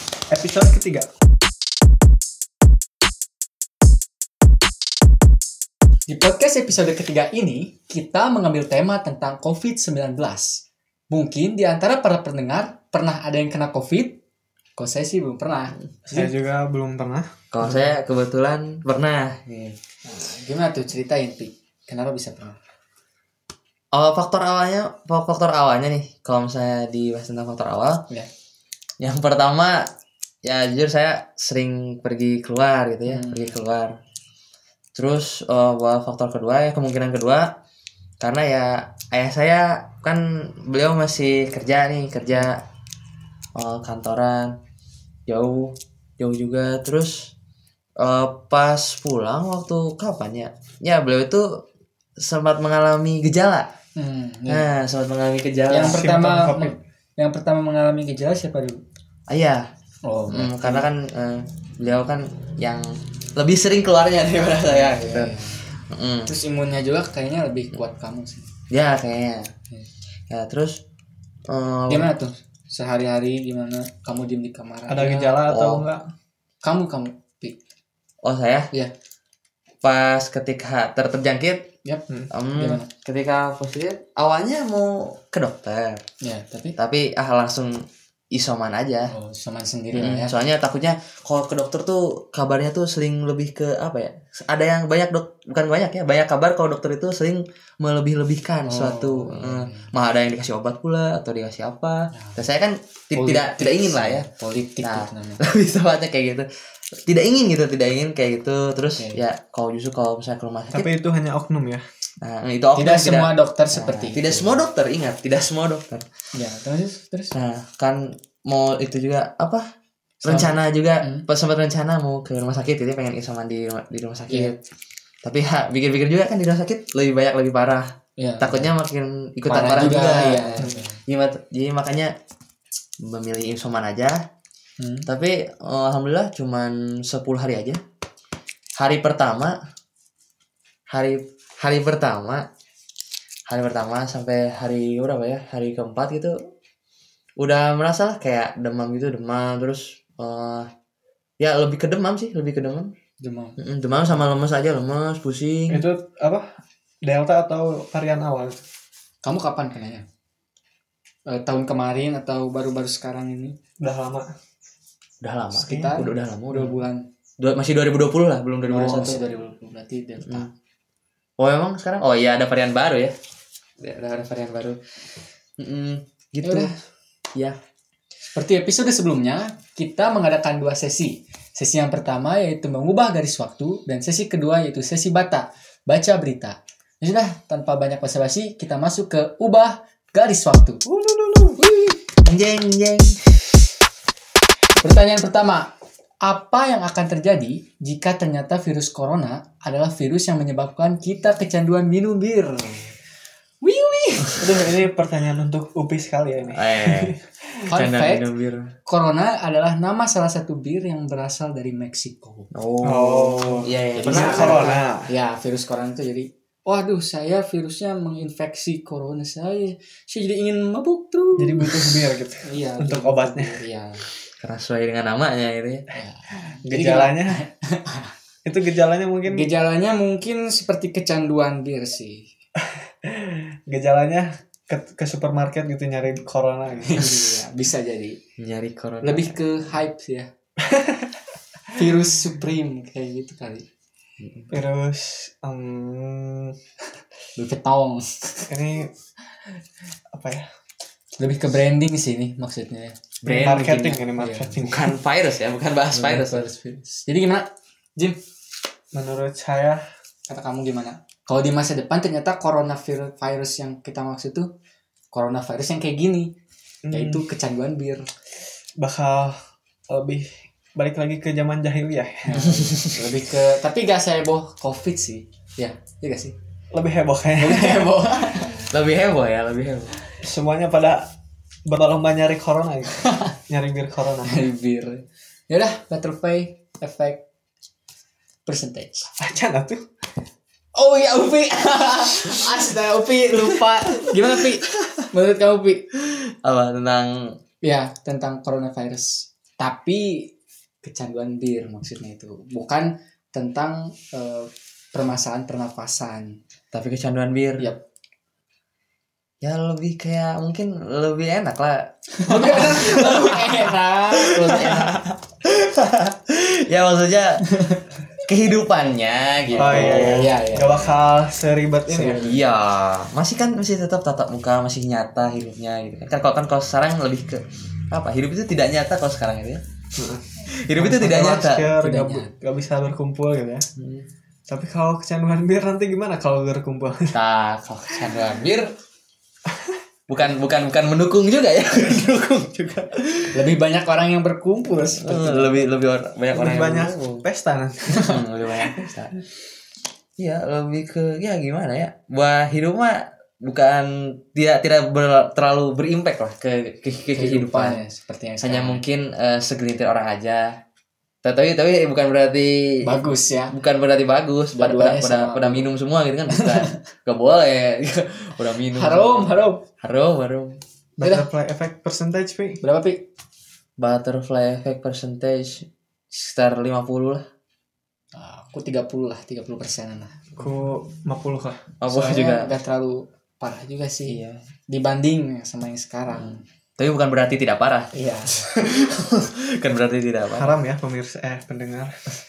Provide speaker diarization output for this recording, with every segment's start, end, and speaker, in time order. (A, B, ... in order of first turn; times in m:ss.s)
0:00.3-0:01.1 A
0:06.1-0:14.2 B
0:14.8-0:16.3 B
0:16.0-0:17.8 A
0:17.5-0:19.8 C
0:20.0-0:22.6 B
0:23.9-0:28.0 C
0:29.0-0:29.8 C
0:30.4-0:33.9 C
0:33.0-0:33.5 B
0:34.9-0:37.5 C
0:38.2-0:42.6 C
0:43.6-0:44.5 C
0:45.3-0:47.3 C
0:48.0-0:51.4 C
0:52.2-0:53.7 C
0:54.0-0:54.7 B
0:54.5-0:56.0 C
0:55.7-0:58.8 B
0:55.8-0:56.7 A
0:59.3-0:59.6 C
1:00.0-1:00.9 B
1:00.3-1:06.3 C
1:04.6-1:05.6 B
1:06.3-1:08.5 B
1:08.7-1:09.5 C
1:10.3-1:10.8 C
1:11.5-1:12.1 C
1:11.9-1:15.4 B
1:14.9-1:16.0 A
1:15.4-1:15.9 C
1:16.6-1:17.6 B
1:18.2-1:18.7 C
1:19.8-1:21.6 C
1:22.3-1:26.0 C
1:22.6-1:22.9 B
1:26.2-1:26.8 B
1:26.8-1:29.1 C
1:29.1-1:30.3 B
1:29.9-1:44.3 C
1:38.6-1:39.9 B
1:42.1-1:42.4 B
1:43.1-1:45.4 B
1:44.8-1:46.5 C
1:47.1-1:50.9 C
1:50.7-1:51.8 A
1:52.2-1:56.0 C
1:52.8-1:54.6 B
1:56.3-1:57.3 B
1:57.3-1:59.6 C
2:00.2-2:04.6 C
2:00.2-2:01.2 B
2:04.3-2:04.5 B
2:05.2-2:07.9 C
2:08.2-2:08.7 B
2:08.4-2:12.1 C
2:09.4-2:11.0 B
2:13.0-2:14.2 C
2:14.8-2:15.1 B
2:15.0-2:17.8 C
2:18.8-2:19.5 C
2:20.9-2:22.4 C
2:23.5-2:26.3 C
2:27.4-2:30.7 C
2:31.4-2:32.9 C
2:33.2-2:33.6 B
2:33.6-2:35.8 C
2:35.7-2:36.4 A
2:37.0-2:38.6 A
2:39.2-2:40.0 B
2:41.3-2:43.5 B
2:43.8-2:44.3 A
2:45.2-2:46.8 C
2:45.6-2:47.0 B
2:45.7-2:46.0 A
2:47.4-2:49.3 C
2:48.7-2:50.5 B
2:50.2-2:50.5 C
2:51.4-2:53.1 C
2:53.8-2:54.8 C
2:55.6-2:56.7 C
2:56.4-2:56.8 B
2:58.3-3:10.8 B
3:10.8-3:11.6 A
3:11.6-3:13.3 C
3:14.8-3:15.7 B
3:16.2-3:22.9 B
3:23.6-3:24.7 B
3:24.4-3:27.7 A
3:26.5-3:27.1 C
3:27.7-3:28.3 B
3:27.7-3:28.7 C
3:28.9-3:32.5 B
3:32.5-3:34.8 C
3:32.8-3:35.1 A
3:33.9-3:44.0 B
3:41.4-3:43.6 A
3:44.4-3:45.9 C
3:45.9-3:48.1 B
3:46.6-3:47.5 A
3:48.4-3:49.5 A
3:49.3-3:52.3 B
3:52.6-3:57.1 A
3:56.9-3:58.2 B
3:58.4-3:59.4 C
3:59.0-4:00.3 B
4:00.6-4:01.1 A
4:01.7-4:03.6 B
4:04.2-4:04.5 C
4:04.5-4:06.5 A
4:07.4-4:08.5 B
4:08.5-4:08.9 A
4:10.1-4:10.4 A
4:11.2-4:13.0 B
4:13.2-4:14.0 C
4:13.2-4:14.9 A
4:14.1-4:14.5 B
4:14.6-4:16.4 C
4:15.9-4:18.2 B
4:18.9-4:19.8 A
4:20.3-4:24.5 B
4:25.1-4:26.3 B
4:26.8-4:27.2 A
4:26.9-4:28.1 B
4:28.8-4:29.4 A
4:29.9-4:32.6 A
4:32.2-4:36.3 B
4:32.5-4:33.0 C
4:36.7-4:37.9 A
4:37.4-4:38.6 B
4:38.7-4:40.0 C
4:40.2-4:41.0 A
4:41.6-4:44.4 A
4:43.0-4:43.3 B
4:44.2-4:47.2 B
4:48.4-4:49.1 B
4:49.2-4:49.8 A
4:50.8-4:55.8 B
4:54.0-4:55.1 C
4:56.0-4:57.1 C
4:57.6-5:00.3 B
5:00.8-5:06.4 B
5:06.7-5:07.7 C
5:09.4-5:13.7 C
5:12.2-5:14.9 B
5:14.2-5:17.5 C
5:17.5-5:17.8 B
5:18.2-5:20.4 C
5:19.5-5:20.9 B
5:19.5-5:22.3 A
5:21.9-5:22.4 B
5:22.1-5:29.6 C
5:30.0-5:33.6 A
5:30.5-5:31.7 C
5:31.8-5:32.3 B
5:33.8-5:34.0 C
5:34.5-5:37.2 A
5:37.1-5:38.7 C
5:40.1-5:43.4 C
5:42.5-5:42.9 A
5:43.3-5:45.7 B
5:44.8-5:47.2 C
5:46.3-5:48.1 A
5:48.0-5:49.2 C
5:50.2-5:57.8 C
5:57.1-5:58.8 B
5:58.4-6:00.4 C
6:01.2-6:10.6 C
6:02.8-6:03.6 B
6:04.5-6:05.7 B
6:06.3-6:06.7 B
6:08.7-6:09.6 B
6:11.0-6:12.6 A
6:11.0-6:11.2 B
6:12.6-6:13.0 B
6:13.8-6:17.2 C
6:18.1-6:20.3 B
6:20.4-6:21.7 A
6:21.8-6:22.5 C
6:21.9-6:26.4 B
6:24.0-6:24.4 C
6:26.1-6:30.5 C
6:27.9-6:28.5 B
6:30.3-6:31.9 A